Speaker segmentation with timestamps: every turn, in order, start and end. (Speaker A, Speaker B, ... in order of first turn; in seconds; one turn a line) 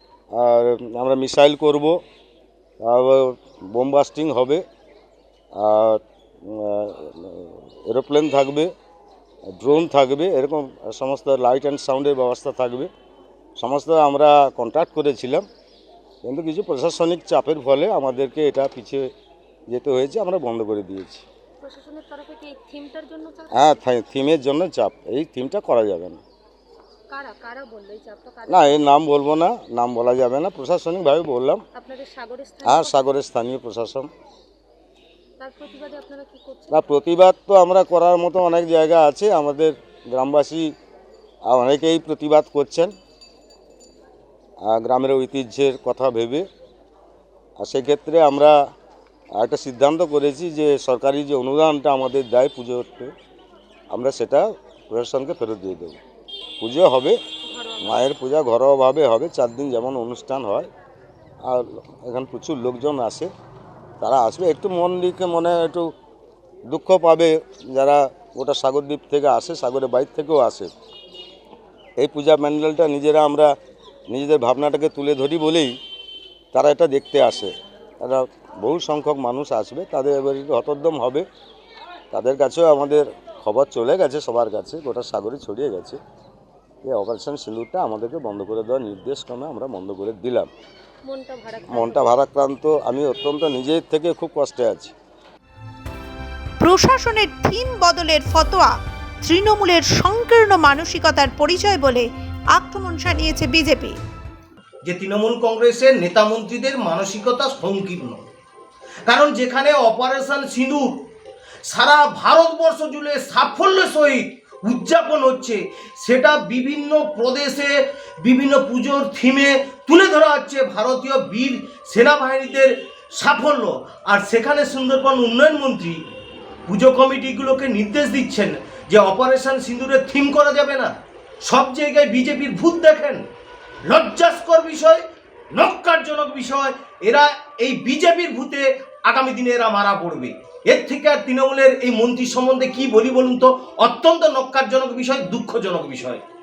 Speaker A: 0.3-1.9
Speaker A: 2.8-4.6
Speaker A: 5.5-8.7
Speaker A: 9.5-12.9
Speaker A: 13.6-15.4
Speaker A: 16.2-19.1
Speaker A: 19.7-21.2
Speaker B: 21.6-23.8
Speaker A: 23.5-26.2
Speaker B: 27.1-28.9
Speaker A: 28.5-31.6
Speaker B: 31.7-33.1
Speaker A: 32.6-34.1
Speaker B: 35.4-37.0
Speaker A: 36.7-40.7
Speaker A: 41.5-42.9
Speaker A: 44.6-46.5
Speaker A: 47.6-48.5
Speaker A: 49.4-53.1
Speaker A: 53.9-56.0
Speaker A: 56.6-57.2
Speaker B: 57.5-58.1
Speaker A: 57.8-60.7
Speaker A: 61.4-63.3
Speaker A: 64.0-65.9
Speaker A: 66.7-70.7
Speaker A: 72.0-73.5
Speaker A: 74.1-75.7
Speaker A: 76.5-81.2
Speaker A: 82.1-86.0
Speaker A: 86.8-90.5
Speaker B: 91.0-92.2
Speaker A: 91.7-94.9
Speaker C: 96.6-104.0
Speaker D: 104.8-108.2
Speaker D: 109.1-111.0
Speaker D: 111.7-126.0
Speaker D: 126.7-130.9
Speaker D: 131.4-133.2
Speaker D: 133.9-135.0
Speaker D: 135.5-146.2